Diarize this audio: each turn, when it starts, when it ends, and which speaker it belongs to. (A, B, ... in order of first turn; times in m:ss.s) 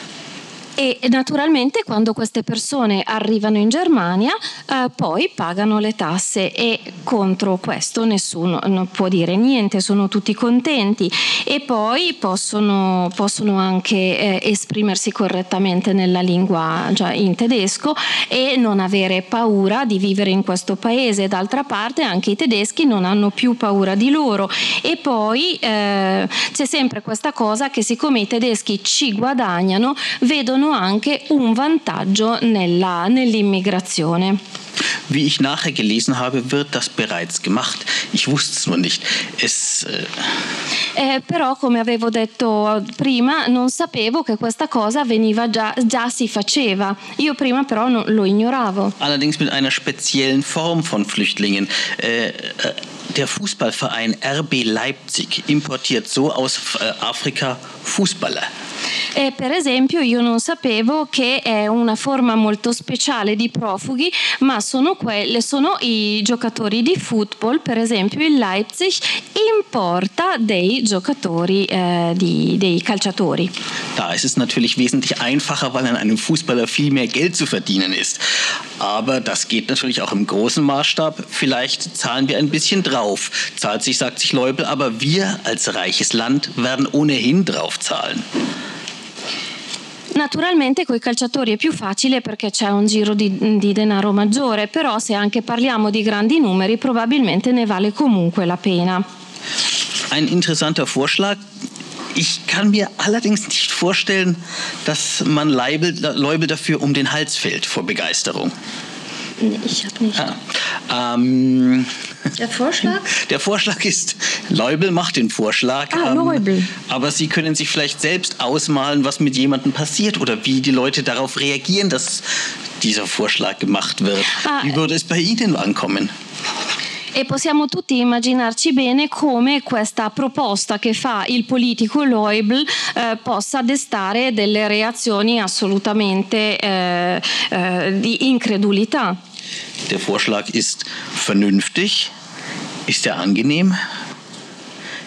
0:00.8-0:34.4 A
0:35.1-0:40.4 B
0:41.0-0:48.9 A
0:49.0-0:58.5 B
0:59.2-1:13.5 A
1:14.0-1:18.2 B
1:18.8-1:28.2 B
1:30.1-1:39.0 A
1:40.1-1:41.4 B
1:42.2-1:48.5 B
1:49.4-1:50.2 A
1:50.2-1:51.9 B
1:52.4-1:53.1 A
1:53.0-2:02.2 B
1:55.9-1:56.7 A
2:02.8-2:06.1 B
2:04.4-2:04.7 A
2:07.2-2:19.2 A
2:19.9-2:22.1 B
2:22.9-2:23.8 B